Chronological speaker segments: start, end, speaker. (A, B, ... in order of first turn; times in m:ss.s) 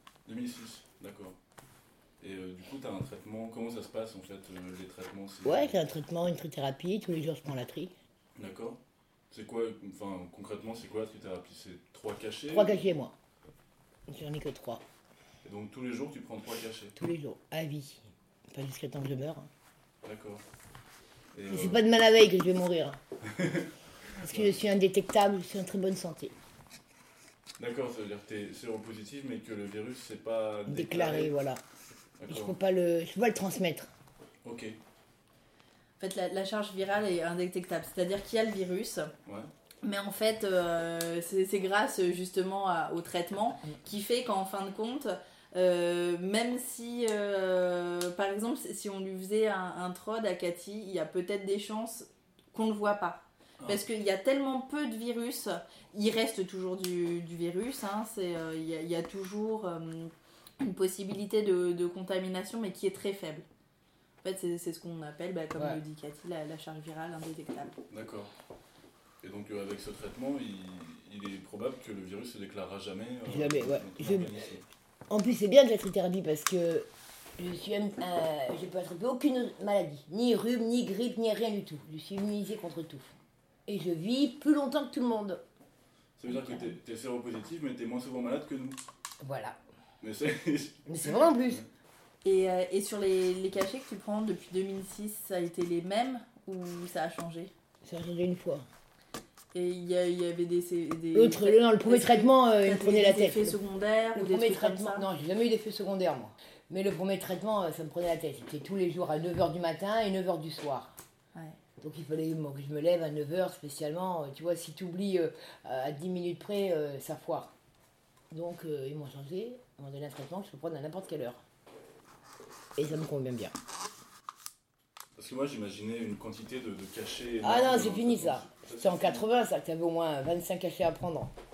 0:00.2-0:01.4 A
0:02.2-0:05.8 A
0:05.4-0:07.9 B
0:08.4-0:08.8 A
0:09.3-0:12.8 A
0:12.5-0:13.1 B
0:14.1-0:14.8 B
0:15.4-0:16.9 A
0:17.0-0:19.5 B
0:20.0-0:20.4 A
0:21.3-0:21.8 A
0:21.5-0:23.0 B
0:23.4-0:23.7 A
0:24.2-0:24.6 A
0:24.2-0:26.4 B
0:27.6-0:31.4 A
0:30.7-0:31.6 B
0:32.2-0:32.5 A
0:32.3-0:33.9 B
0:34.4-0:34.8 A
0:36.0-0:39.1 C
0:39.8-1:03.4 C
1:04.2-1:07.7 C
1:05.6-1:05.8 B
1:07.9-1:08.3 A
1:09.2-1:14.6 A
1:13.3-1:14.4 B
1:15.1-1:23.1 B
1:23.7-1:25.4 B
1:26.2-1:28.8 A
1:26.3-1:26.7 C
1:29.2-1:29.6 B
1:30.0-1:31.6 A
1:30.9-1:31.6 B
1:32.2-1:37.5 C
1:37.8-1:38.7 B
1:39.5-1:45.1 C
1:41.1-1:43.6 B
1:44.1-1:51.0 B
1:51.8-1:57.5 B
1:58.3-2:01.4 B
2:02.8-2:03.5 B
2:05.2-2:09.2 A
2:07.4-2:11.3 B